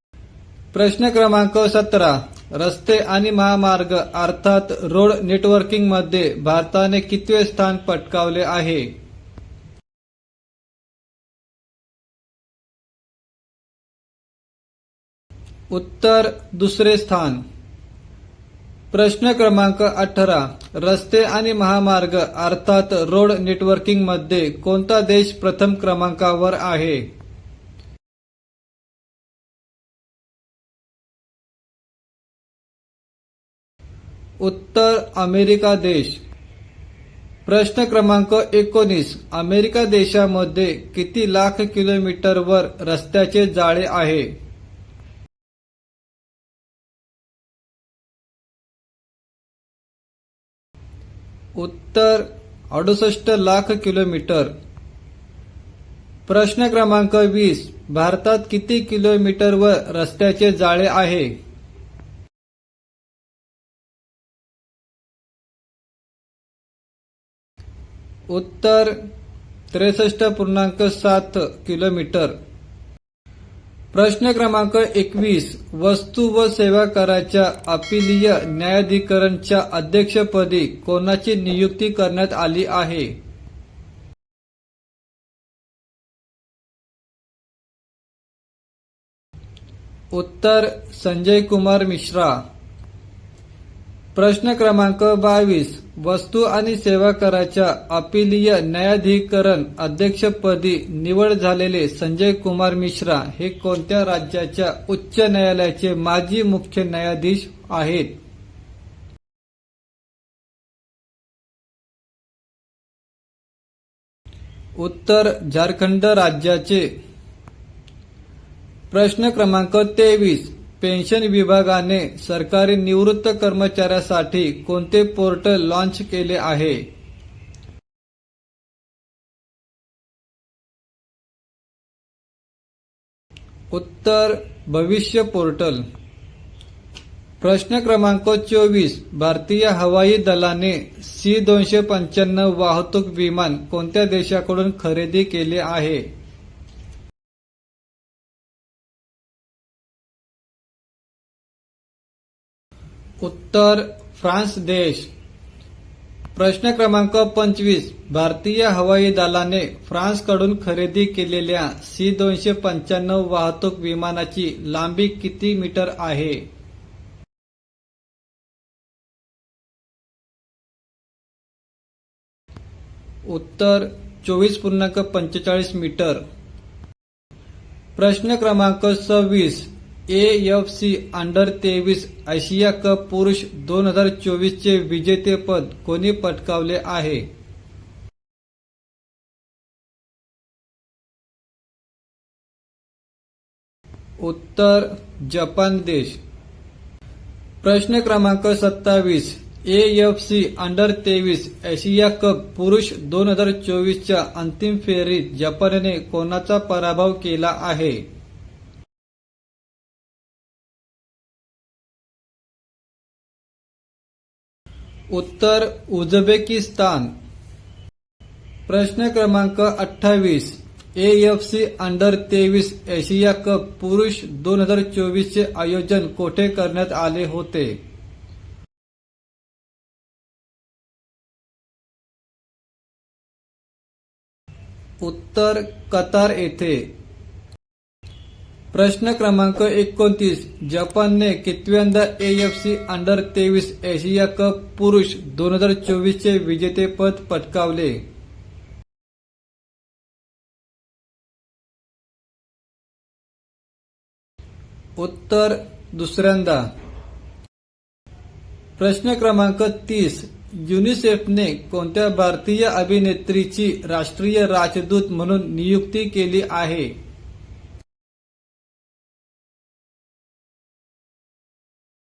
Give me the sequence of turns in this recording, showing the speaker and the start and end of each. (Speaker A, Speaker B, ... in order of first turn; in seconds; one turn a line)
Speaker A: 0.7-8.9
Speaker A: 15.7-17.4
Speaker A: 18.9-27.1
Speaker A: 34.4-36.2
Speaker A: 37.5-44.3
Speaker A: 51.6-54.5
Speaker A: 56.3-61.3
Speaker A: 68.3-69.0
Speaker A: 69.7-72.3
Speaker A: 73.9-83.1
Speaker A: 90.1-92.4
Speaker A: 94.2-108.1
Speaker A: 114.8-116.9
Speaker A: 118.9-126.8
Speaker A: 133.7-135.8
Speaker A: 137.4-146.0
Speaker A: 153.2-155.1
Speaker A: 156.3-166.4
Speaker A: 173.2-176.2
Speaker A: 178.0-187.2
Speaker A: 194.2-196.2
Speaker A: 197.6-208.0
Speaker A: 215.1-217.1
Speaker A: 218.7-227.8
Speaker A: 235.0-236.9
Speaker A: 238.7-248.0
Speaker A: 255.0-256.7
Speaker A: 258.8-266.9